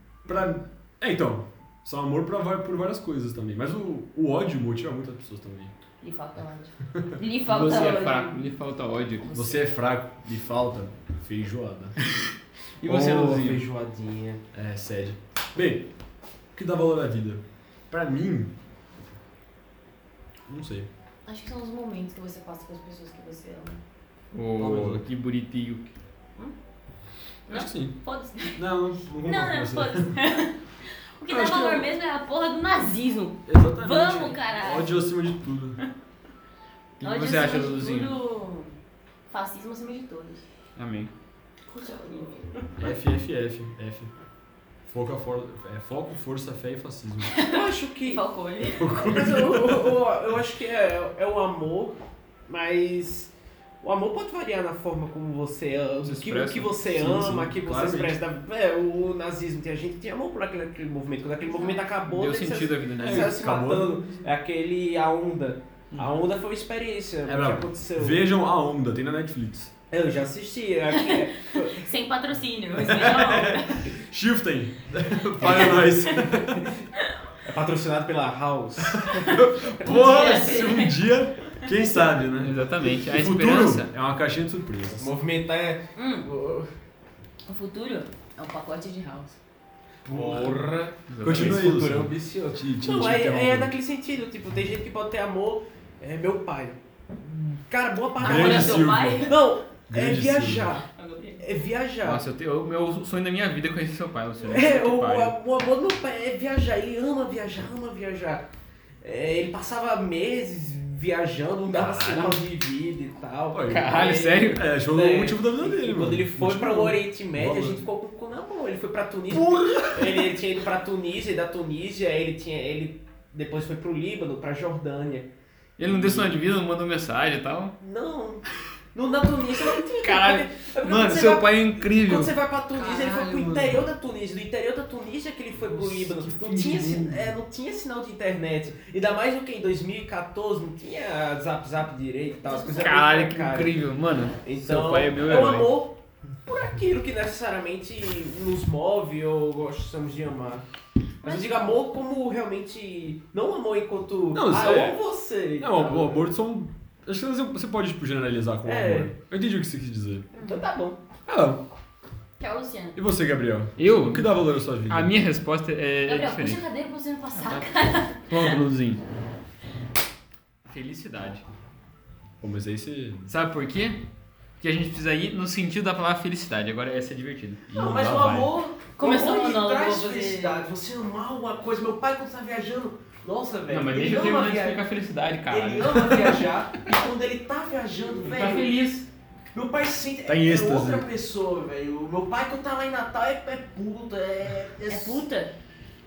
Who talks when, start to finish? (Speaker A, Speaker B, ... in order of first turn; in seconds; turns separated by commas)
Speaker A: 0.3-5.7, Speaker B: 6.0-8.4, Speaker C: 7.5-9.4, Speaker A: 9.3-12.0, Speaker C: 12.1-13.6, Speaker D: 12.8-14.4, Speaker A: 14.5-15.9, Speaker A: 16.6-18.5, Speaker A: 20.5-20.9, Speaker B: 21.3-23.8, Speaker C: 24.3-25.9, Speaker A: 24.6-25.1, Speaker A: 27.5-28.0, Speaker B: 27.5-35.0, Speaker A: 28.5-30.1, Speaker A: 31.3-31.9, Speaker A: 33.5-35.8, Speaker C: 37.0-38.1, Speaker B: 37.0-38.8, Speaker B: 39.3-40.5, Speaker C: 40.8-41.1, Speaker B: 41.7-42.7, Speaker A: 42.8-44.1, Speaker A: 44.9-47.4, Speaker B: 47.3-49.0, Speaker D: 47.5-48.2, Speaker A: 48.6-50.0, Speaker D: 49.0-68.2, Speaker C: 56.0-56.7, Speaker A: 56.9-58.2, Speaker B: 61.5-61.8, Speaker C: 62.0-63.4, Speaker A: 63.0-64.0, Speaker A: 67.2-69.7, Speaker D: 69.9-71.9, Speaker B: 70.9-73.9, Speaker A: 72.8-76.7, Speaker D: 75.4-76.7, Speaker B: 75.4-76.2, Speaker B: 77.0-77.3, Speaker D: 77.4-80.6, Speaker A: 78.9-85.1, Speaker B: 79.2-81.0, Speaker C: 82.4-83.9, Speaker D: 85.0-86.7, Speaker B: 86.0-86.3, Speaker B: 87.5-89.4, Speaker D: 90.1-100.8, Speaker A: 90.1-90.6, Speaker C: 91.1-91.6, Speaker A: 91.2-93.7, Speaker A: 98.2-99.3, Speaker B: 98.2-99.3, Speaker A: 99.9-100.7, Speaker B: 100.9-101.4, Speaker D: 101.4-102.2, Speaker C: 102.0-105.3, Speaker D: 104.5-108.5, Speaker D: 109.0-125.3, Speaker C: 111.8-112.4, Speaker A: 111.8-112.2, Speaker A: 113.5-117.8, Speaker C: 113.7-114.7, Speaker A: 119.3-120.3, Speaker C: 125.8-127.8, Speaker A: 126.0-126.2, Speaker D: 127.8-143.8, Speaker C: 129.8-132.3, Speaker C: 132.9-133.8, Speaker A: 135.6-137.2, Speaker B: 142.4-143.0, Speaker C: 142.8-145.7, Speaker D: 144.4-150.7, Speaker D: 151.2-156.3, Speaker B: 151.2-151.7, Speaker A: 154.3-155.0, Speaker A: 155.6-160.3, Speaker D: 158.7-159.1, Speaker B: 160.3-160.7, Speaker D: 160.4-161.0, Speaker A: 161.3-161.6, Speaker B: 162.4-163.0, Speaker A: 163.0-165.1, Speaker C: 163.8-164.3, Speaker C: 164.9-166.6, Speaker B: 166.1-168.6, Speaker C: 167.3-167.7, Speaker C: 168.3-169.0, Speaker A: 168.3-168.8, Speaker C: 170.7-171.4, Speaker A: 172.4-173.3, Speaker C: 173.3-174.0, Speaker C: 174.6-177.6, Speaker A: 177.7-178.5, Speaker D: 177.7-184.8, Speaker B: 179.0-180.7, Speaker C: 183.7-186.5, Speaker D: 185.5-188.7, Speaker C: 188.2-189.1, Speaker D: 189.5-195.3, Speaker A: 190.3-191.1, Speaker B: 194.9-195.5